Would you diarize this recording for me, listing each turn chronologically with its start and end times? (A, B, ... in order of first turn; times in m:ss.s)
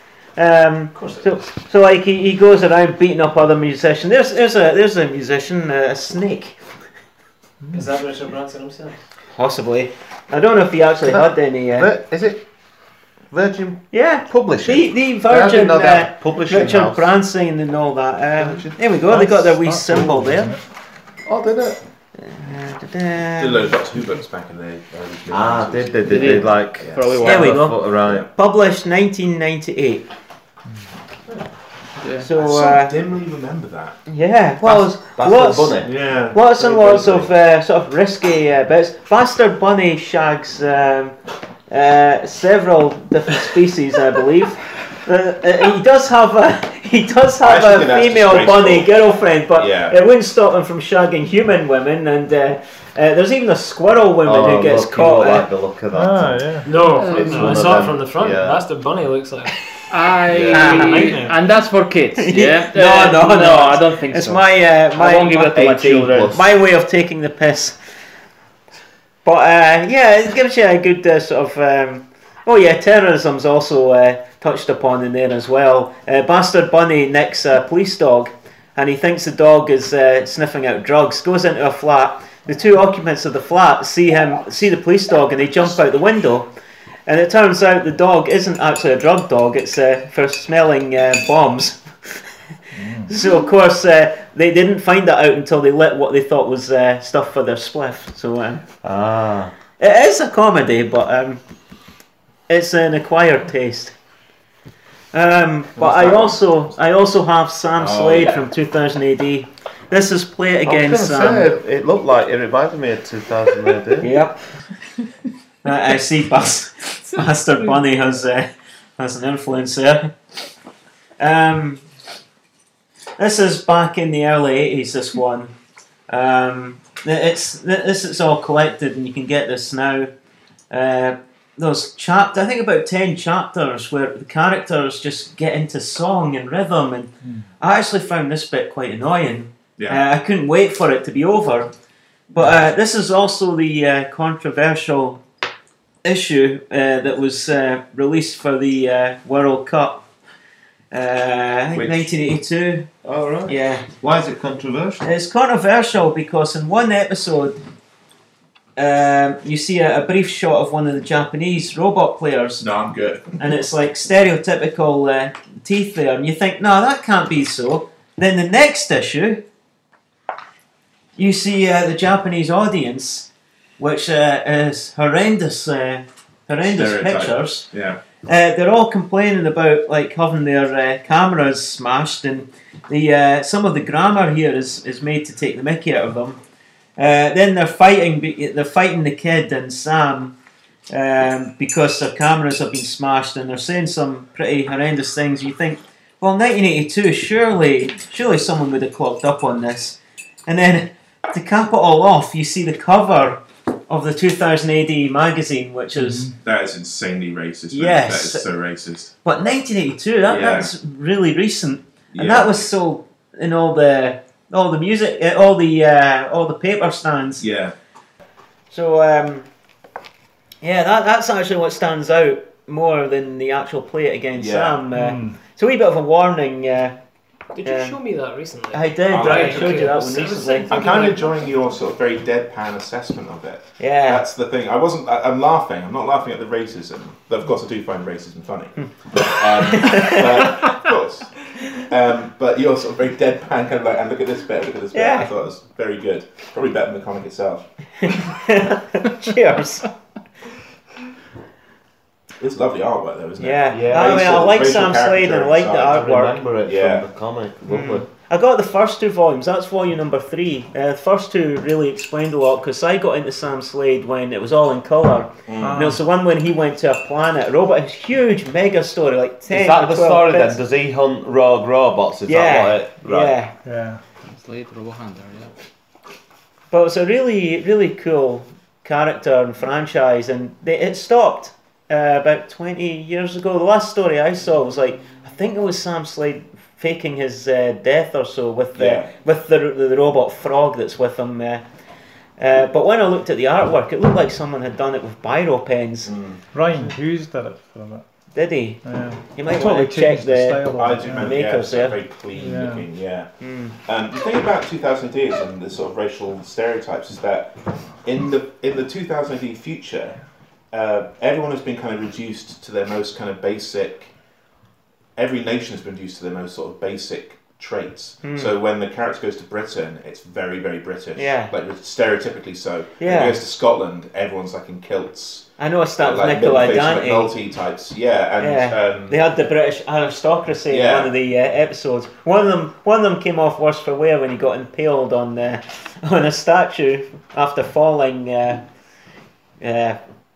0:00.4-0:06.6 A
0:00.9-0:01.3 B
0:07.7-0:09.0 B
0:09.3-0:11.9 A
0:11.1-0:12.4 C
0:13.3-0:17.1 C
0:13.9-0:20.5 A
0:18.4-0:18.8 C
0:19.1-0:20.6 D
0:21.2-0:21.8 C
0:22.2-0:23.7 A
0:23.4-0:27.2 E
0:25.3-0:28.2 C
0:26.0-0:27.6 F
0:27.2-0:30.1 A
0:28.0-0:28.3 E
0:32.0-0:32.3 F
0:32.2-0:33.0 A
0:32.4-0:34.0 E
0:34.1-0:41.2 A
0:34.6-0:35.9 C
0:35.8-0:37.3 E
0:36.6-0:37.2 C
0:41.7-0:55.5 A
0:47.4-0:48.9 E
0:49.5-0:50.0 E
0:54.2-0:58.6 C
0:55.9-0:56.7 D
0:56.6-0:59.6 B
0:56.8-0:57.9 F
0:59.9-1:06.3 F
1:00.3-1:00.6 C
1:00.4-1:01.4 B
1:00.5-1:01.1 A
1:02.2-1:07.8 A
1:05.5-1:06.4 C
1:09.2-1:26.5 A
1:27.1-1:32.3 A
1:32.7-1:33.1 D
1:33.1-1:38.6 A
1:38.8-1:39.5 C
1:39.8-1:41.4 A
1:42.5-1:43.9 A
1:45.1-1:51.5 A
1:45.8-1:46.4 E
1:47.8-1:48.4 E
1:50.6-1:54.1 C
1:54.0-1:54.4 A
1:55.6-2:00.1 A
2:01.2-2:01.8 A
2:03.2-2:05.5 A
2:06.1-2:10.1 A
2:10.7-2:21.7 A
2:19.8-2:20.0 E
2:22.3-2:25.2 A
2:26.0-2:30.0 A
2:30.9-2:32.9 A
2:31.7-2:32.1 E
2:33.0-2:35.0 C
2:33.4-2:33.8 A
2:35.0-2:37.6 A
2:38.8-2:42.6 A
2:42.6-2:43.3 E
2:43.4-2:49.4 A
2:51.2-2:57.7 A
2:56.6-2:58.0 E
2:58.2-3:06.4 A
3:07.0-3:10.3 A
3:10.9-3:26.3 A
3:26.0-3:26.3 D
3:26.4-3:29.1 E
3:27.7-3:28.5 A
3:29.2-3:37.4 A
3:30.3-3:30.7 E
3:32.1-3:32.6 E
3:37.4-3:37.7 E
3:38.7-3:39.5 A
3:40.6-3:47.0 A
3:44.3-3:44.8 E
3:44.9-3:45.4 D
3:47.5-3:51.5 B
3:47.6-3:48.0 A
3:48.7-3:51.1 A
3:49.1-3:49.9 E
3:50.7-4:07.7 E
3:53.8-3:54.2 A
3:59.7-4:00.5 A
4:04.9-4:05.3 A
4:08.0-4:09.9 A
4:12.4-4:16.0 E
4:13.4-4:16.4 A
4:13.7-4:14.5 C
4:15.8-4:18.0 C
4:16.6-4:17.0 E
4:17.7-4:30.6 A
4:25.5-4:25.8 E
4:25.6-4:26.0 D
4:29.5-4:33.4 C
4:32.3-4:33.5 A
4:33.6-4:34.0 D
4:34.2-4:35.5 F
4:36.7-4:51.6 A
4:48.7-4:49.1 E
4:52.4-4:56.1 A
4:56.0-4:56.4 E
4:56.5-4:58.0 D
4:58.3-4:58.8 A
4:58.8-5:01.4 D
4:59.3-5:02.0 A
5:00.7-5:03.3 E
5:02.3-5:02.8 D
5:03.4-5:03.8 A
5:03.8-5:10.2 E
5:10.7-5:14.1 E
5:15.2-5:25.5 E
5:18.2-5:18.6 A
5:21.2-5:21.5 A
5:23.0-5:23.4 A
5:25.6-5:27.3 A
5:26.0-5:29.2 E
5:28.4-5:38.6 A
5:30.7-5:31.1 E
5:39.6-5:40.0 A